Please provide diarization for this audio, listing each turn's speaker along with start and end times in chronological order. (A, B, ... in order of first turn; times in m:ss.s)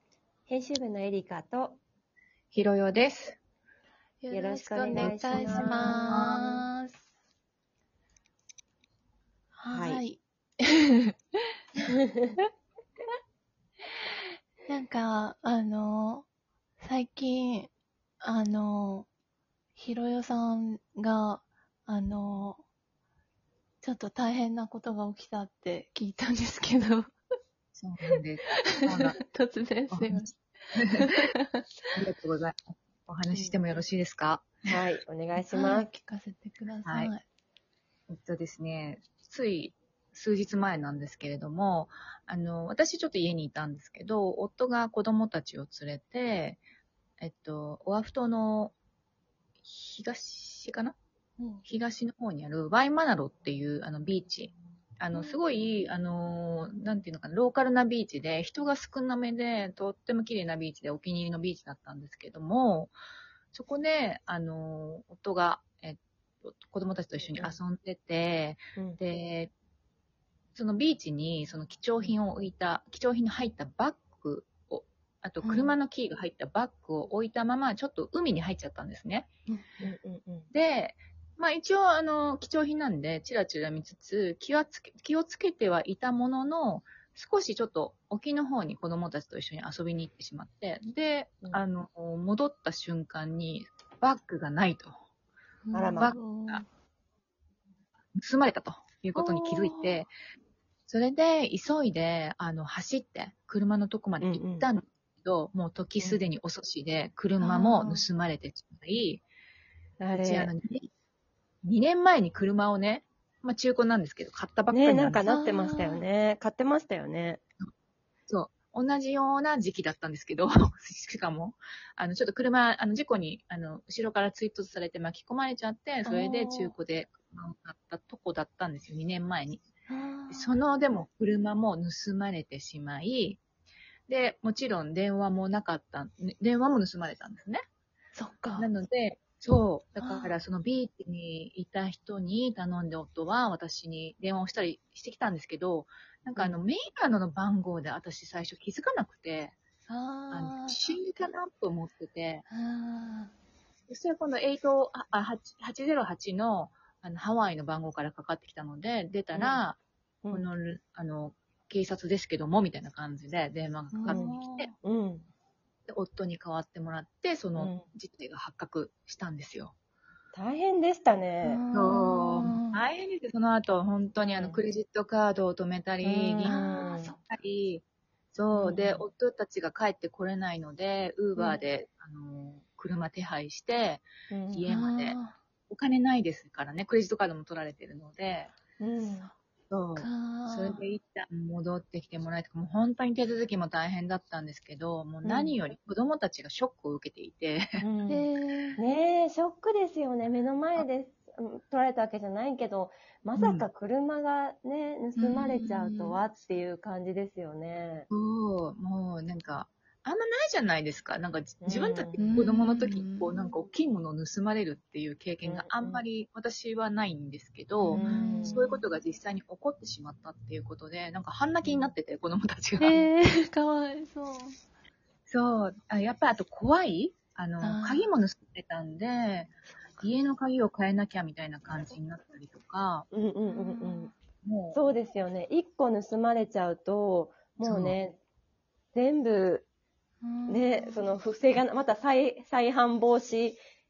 0:00.5-0:01.8 A
0:02.5-0:03.4 B
0:04.2-0:07.0 C
0:04.3-0:06.6 A
0:04.9-0:06.4 B
0:09.6-0:11.3 C
0:09.7-0:10.0 A
0:11.9-0:12.3 A
0:14.6-0:16.3 C
0:16.8-0:19.1 C
0:19.8-0:22.6 C
0:23.8-0:27.1 C
0:27.7-0:29.2 B
0:28.6-0:31.9 C
0:29.9-0:31.0 B
0:31.9-0:34.8 B
0:33.3-0:33.6 A
0:34.7-0:35.9 A
0:35.4-0:37.2 C
0:36.8-0:37.1 B
0:38.1-0:46.6 B
0:47.2-0:48.7 B
0:49.6-0:51.0 B
0:51.4-0:51.6 C
0:51.6-1:02.9 B
0:55.1-0:55.4 C
1:03.5-1:09.5 B
1:07.2-1:07.6 A
1:10.5-1:19.3 B
1:15.4-1:15.8 C
1:19.8-1:20.5 A
1:20.5-1:35.0 B
1:35.6-1:36.6 C
1:35.7-1:36.1 A
1:36.0-1:36.6 B
1:38.2-1:40.1 B
1:39.1-1:40.0 C
1:40.9-1:49.2 B
1:44.2-1:44.7 A
1:47.4-1:48.1 C
1:50.0-1:50.5 A
1:50.2-1:50.9 B
1:51.6-1:55.2 B
1:54.7-1:57.4 A
1:55.2-1:56.0 C
1:58.3-2:09.6 B
2:06.0-2:06.7 C
2:09.9-2:10.6 C
2:10.3-2:13.4 B
2:14.1-2:17.6 B
2:18.1-2:18.7 C
2:18.5-2:29.6 B
2:20.0-2:20.4 C
2:29.9-2:30.8 C
2:30.3-2:32.4 B
2:32.5-2:33.3 C
2:33.9-2:39.8 B
2:39.3-2:39.6 A
2:40.2-2:40.5 A
2:40.3-2:44.7 B
2:43.9-2:44.7 C
2:44.1-2:45.3 A
2:45.9-2:49.7 B
2:47.6-2:47.9 A
2:50.3-2:51.6 A
2:51.4-2:52.8 C
2:51.7-3:05.2 B
2:54.2-2:54.6 A
2:56.0-2:57.1 A
2:56.4-2:57.2 C
2:58.5-2:59.0 A
3:04.3-3:04.7 A
3:04.7-3:05.4 C
3:05.7-3:08.5 B
3:08.8-3:09.3 A
3:09.7-3:17.8 B
3:10.0-3:10.8 C
3:15.2-3:15.5 A
3:17.8-3:28.1 A
3:18.1-3:18.8 C
3:23.4-3:23.7 B
3:25.2-3:26.2 C
3:28.1-3:43.0 B
3:31.6-3:32.3 A
3:32.2-3:33.3 C
3:35.4-3:36.0 A
3:37.8-3:38.8 C
3:37.9-3:38.7 A
3:41.6-3:41.9 A
3:42.8-3:44.6 C
3:45.3-3:53.1 B
3:47.6-3:48.1 C
3:53.1-3:54.1 A
3:53.5-3:54.1 C
3:54.4-3:54.8 B
3:54.7-3:58.2 A
3:57.6-3:58.0 B
3:58.9-3:59.6 A
4:00.2-4:01.2 C
4:00.5-4:03.6 A